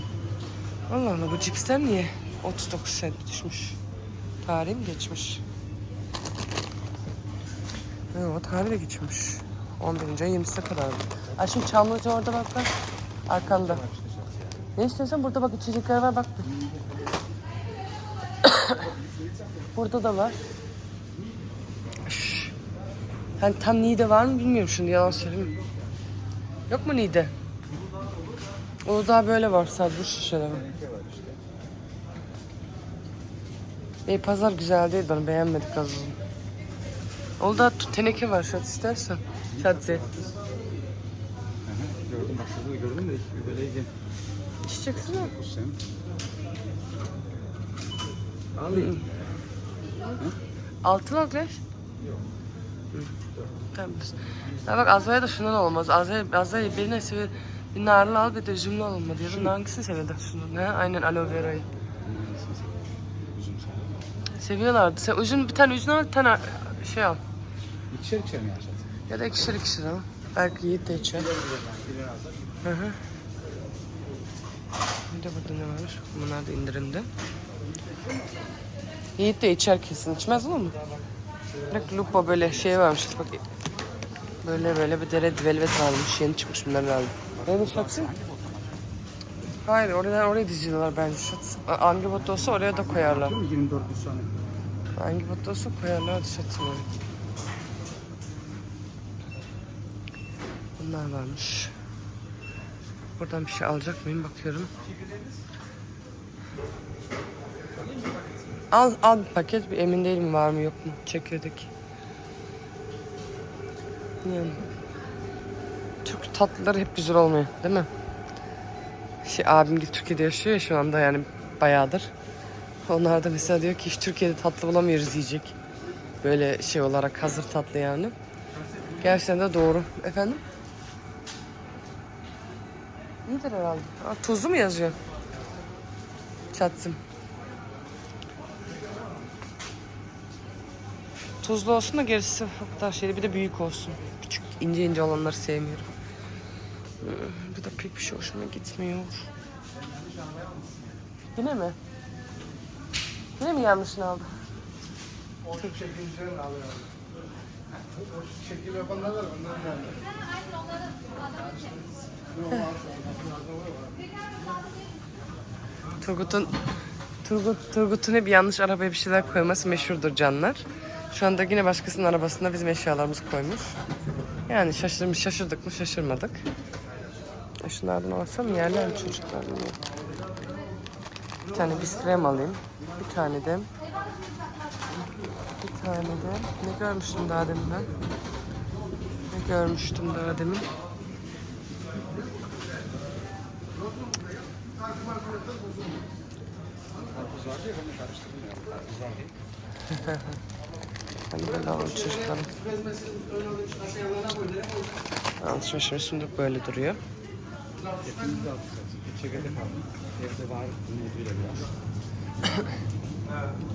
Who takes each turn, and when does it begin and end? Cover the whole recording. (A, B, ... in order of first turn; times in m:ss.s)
0:00.9-0:03.8 A
0:04.4-0:05.4 A
0:08.1-0:12.7 A
0:13.3-0:13.8 A
0:13.3-0:14.7 B
0:14.8-0:16.5 A
0:16.4-0:17.1 B
0:18.4-0:18.8 A
0:18.8-0:19.7 B
0:19.7-0:20.4 A
0:22.0-0:22.5 A
0:23.4-0:25.5 A
0:26.7-0:27.3 A
0:28.8-0:30.6 A
0:30.5-0:31.4 B
0:34.1-0:36.2 A
0:37.4-0:40.0 A
0:39.5-0:40.4 B
0:41.6-0:43.9 B
0:44.6-0:45.3 A
0:44.9-0:45.8 B
0:48.5-0:49.0 B
0:48.7-0:49.0 A
0:50.8-0:51.6 A
0:53.7-1:01.7 A
0:54.5-0:54.9 B
1:02.0-1:04.0 B
1:04.4-1:07.2 A
1:07.9-1:08.9 B
1:09.1-1:11.3 A
1:10.8-1:12.6 B
1:12.6-1:13.0 A
1:15.1-1:17.1 A
1:19.2-1:20.8 A
1:21.7-1:22.7 B
1:21.7-1:23.4 A
1:24.4-1:28.1 A
1:27.3-1:28.8 B
1:29.6-1:33.4 A
1:32.1-1:34.3 B
1:35.0-1:36.9 A
1:40.8-1:41.7 A
1:43.2-1:44.7 A
1:48.7-1:51.7 A
1:54.2-1:54.6 A
1:56.0-1:57.9 A
1:59.2-2:02.1 A
2:02.8-2:05.5 A
2:06.2-2:08.1 A
2:09.0-2:10.4 A
2:13.2-2:15.0 A
2:16.5-2:17.0 A
2:21.4-2:25.9 A
2:27.0-2:29.3 A
2:31.3-2:31.8 A
2:33.4-2:34.3 A
2:35.8-2:36.4 C
2:38.4-2:39.6 C
2:42.6-2:43.1 C
2:46.0-2:46.5 A
2:47.2-2:53.8 A
2:54.5-2:56.4 A
2:57.6-2:59.8 A
3:01.5-3:03.7 A
3:05.6-3:07.9 A
3:09.3-3:10.7 A
3:17.0-3:19.3 B
3:19.9-3:20.3 A
3:21.3-3:22.5 A
3:25.4-3:27.0 A
3:28.0-3:31.8 B